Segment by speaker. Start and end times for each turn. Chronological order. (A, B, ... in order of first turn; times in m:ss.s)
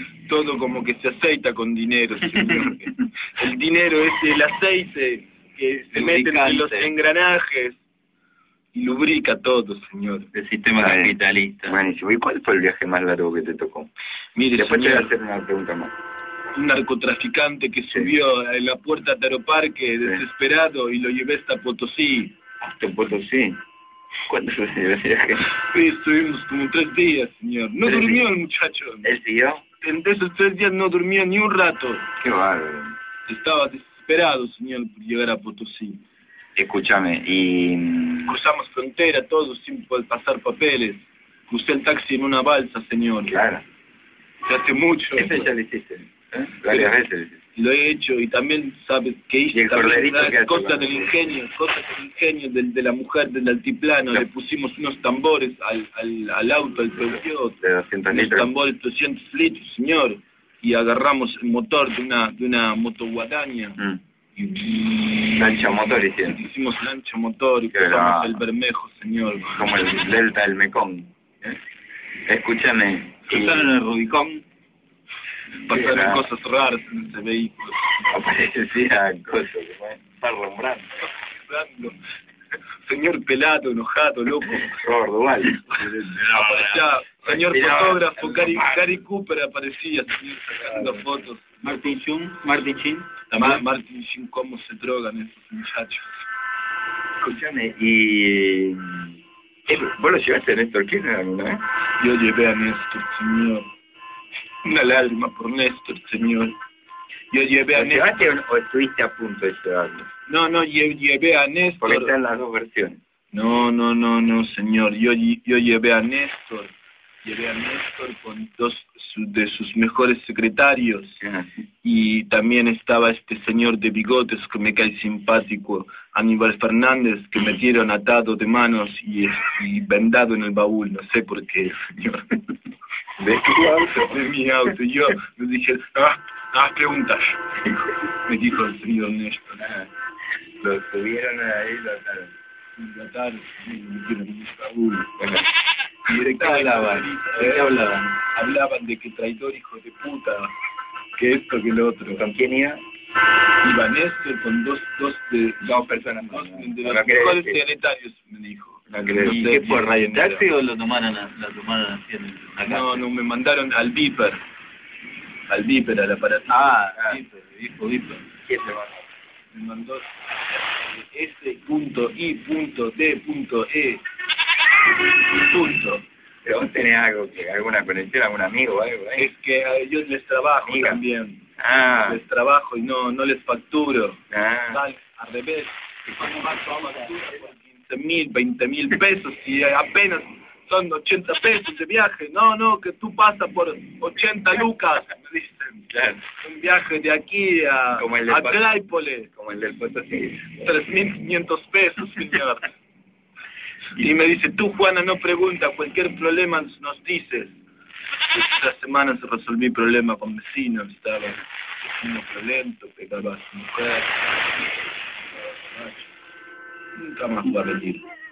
0:00.2-0:07.8 A
0:05.9-0:06.9 B
0:08.7-0:10.3 A
0:10.3-0:11.8 B
0:10.8-0:11.1 C
0:11.6-0:13.9 C
0:14.4-0:15.1 A
0:14.6-0:15.9 C
0:16.5-0:22.3 A
0:22.6-0:23.6 C
0:24.3-0:25.5 C
0:25.6-0:29.1 A
0:27.8-0:28.3 C
0:29.0-0:29.6 C
0:29.8-0:32.1 A
0:32.2-0:32.9 C
0:33.3-0:36.0 A
0:36.6-0:38.4 C
0:38.3-0:43.4 A
0:43.3-0:43.6 C
0:44.4-0:45.5 A
0:45.2-0:47.4 C
0:46.7-0:46.9 A
0:47.5-0:57.6 A
0:49.5-0:51.1 C
0:57.6-0:58.5 C
0:58.1-1:03.8 A
1:04.4-1:09.7 A
1:05.4-1:06.4 C
1:07.7-1:08.4 C
1:09.6-1:11.6 C
1:12.3-1:13.7 C
1:13.3-1:14.4 B
1:15.6-1:18.1 A
1:15.7-1:16.3 C
1:18.1-1:21.0 C
1:21.0-1:22.0 A
1:22.8-1:24.8 A
1:24.7-1:29.0 C
1:25.7-1:31.9 A
1:30.7-1:31.1 C
1:31.6-1:33.6 B
1:33.3-1:36.2 A
1:37.2-1:41.6 C
1:42.0-1:43.7 A
1:44.6-1:46.6 A
1:47.3-1:48.1 A
1:47.7-1:50.1 C
1:50.3-1:52.1 A
1:51.8-1:53.0 C
1:53.3-1:56.7 A
1:57.2-2:01.2 A
2:01.2-2:01.5 C
2:01.8-2:12.3 A
2:13.2-2:14.1 C
2:13.9-2:17.4 A
2:18.1-2:19.6 A
2:19.6-2:19.9 C
2:20.6-2:22.3 C
2:22.8-2:25.1 A
2:25.2-2:25.4 C
2:26.1-2:28.1 B
2:26.1-2:27.7 A
2:28.2-2:30.5 A
2:31.2-2:32.2 A
2:32.1-2:32.8 C
2:33.6-2:40.4 A
2:35.6-2:37.6 C
2:38.9-2:39.9 C
2:39.2-2:43.0 B
2:42.6-2:44.4 A
2:45.5-2:46.9 A
2:46.5-2:48.2 B
2:48.4-2:49.0 C
2:49.5-2:54.0 A
2:55.3-2:56.0 A
2:56.4-2:59.3 C
2:59.2-3:19.3 A
3:00.6-3:01.0 C
3:01.6-3:02.2 C
3:04.3-3:04.8 C
3:15.9-3:16.2 C
3:17.9-3:18.7 C
3:19.3-3:20.6 C
3:20.6-3:22.7 A
3:24.0-3:27.6 A
3:28.3-3:34.2 A
3:35.6-3:36.1 A
3:36.9-3:38.0 A